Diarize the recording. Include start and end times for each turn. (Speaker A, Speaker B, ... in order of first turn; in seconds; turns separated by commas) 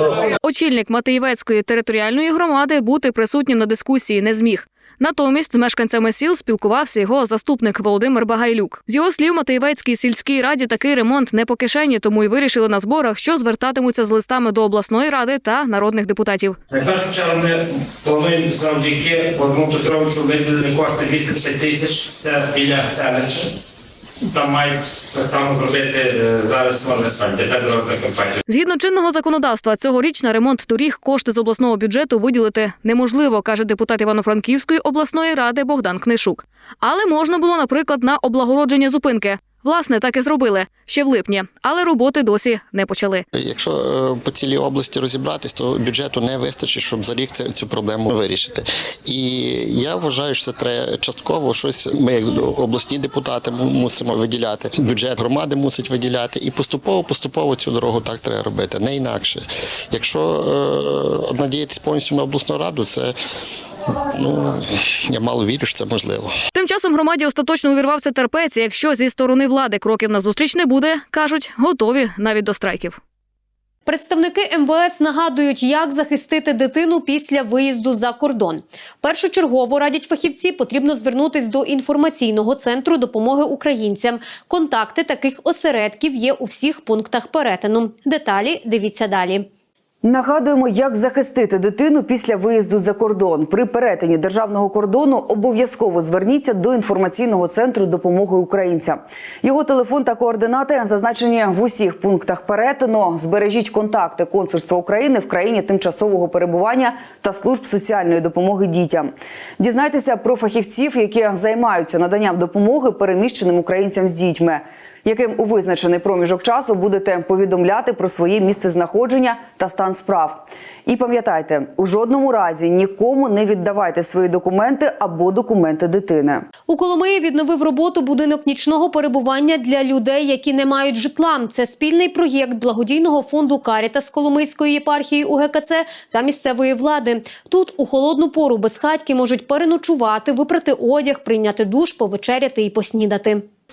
Speaker A: 0.4-16.6, Speaker B: 16.7-23.5, Speaker B: 24.3-28.4, Speaker A: 28.5-43.2, Speaker C: 43.3-63.1, Speaker C: 64.1-66.3, Speaker A: 66.5-73.0, Speaker D: 73.8-89.5, Speaker E: 90.0-126.5, Speaker D: 126.7-143.4